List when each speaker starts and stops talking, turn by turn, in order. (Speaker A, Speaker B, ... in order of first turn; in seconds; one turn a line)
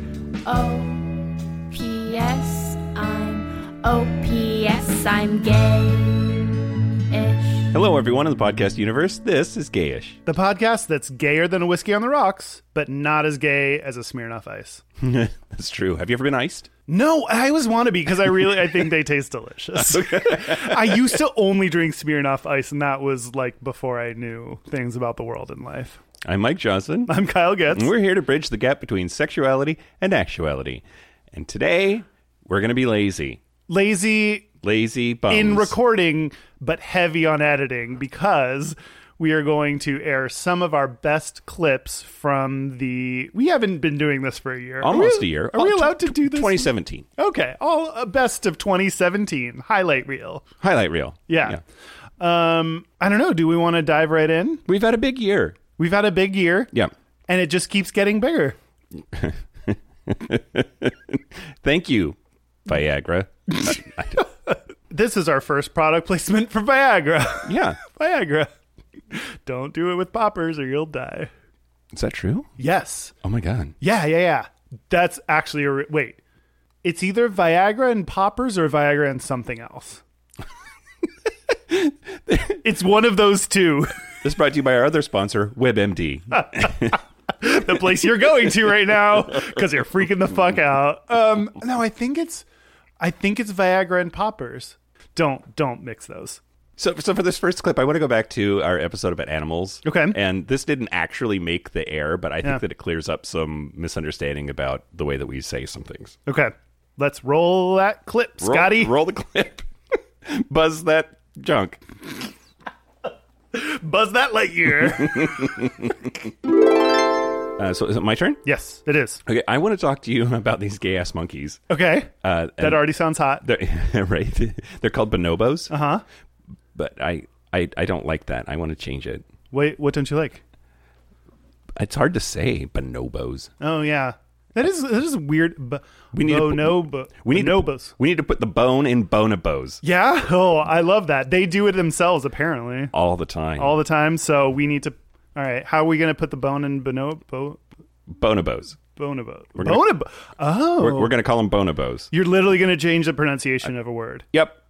Speaker A: 0.4-6.5
Speaker A: 7.1-7.7
Speaker B: 7.7-10.2
Speaker C: 10.2-14.8
Speaker B: 15.0-16.7
Speaker C: 16.9-26.0
Speaker B: 19.8-21.1
Speaker B: 26.2-27.1
Speaker C: 27.1-27.9
Speaker B: 27.7-33.4
Speaker C: 33.7-34.5
Speaker B: 34.6-35.8
Speaker C: 35.3-50.4
Speaker B: 44.8-47.1
Speaker B: 50.6-51.6
Speaker C: 51.3-51.6
Speaker C: 52.2-54.6
Speaker B: 54.6-55.6
Speaker C: 55.8-56.7
Speaker C: 57.3-58.6
Speaker B: 59.1-64.3
Speaker C: 64.9-68.5
Speaker B: 67.5-67.8
Speaker C: 69.1-71.3
Speaker B: 71.9-72.5
Speaker C: 72.6-73.1
Speaker B: 73.2-73.8
Speaker C: 73.8-76.2
Speaker C: 76.8-80.0
Speaker B: 81.7-82.6
Speaker C: 82.6-84.0
Speaker B: 84.2-87.0
Speaker C: 86.3-92.4
Speaker C: 93.0-96.4
Speaker B: 96.8-106.2
Speaker C: 99.8-100.2
Speaker C: 106.2-108.9
Speaker B: 108.4-109.7
Speaker B: 110.2-111.8
Speaker C: 113.5-115.7
Speaker B: 114.8-116.1
Speaker B: 117.6-118.4
Speaker C: 118.4-119.2
Speaker B: 119.2-121.6
Speaker C: 121.7-123.4
Speaker B: 122.2-122.9
Speaker B: 123.4-125.7
Speaker C: 125.7-126.0
Speaker B: 126.7-129.2
Speaker C: 129.5-130.4
Speaker B: 131.8-133.5
Speaker C: 133.6-137.9
Speaker B: 136.1-139.8
Speaker C: 139.8-142.9
Speaker B: 142.9-143.8
Speaker C: 143.6-147.6
Speaker B: 148.1-148.8
Speaker C: 148.9-151.1
Speaker B: 149.5-149.8
Speaker B: 150.8-152.1
Speaker C: 152.1-154.2
Speaker B: 154.3-154.6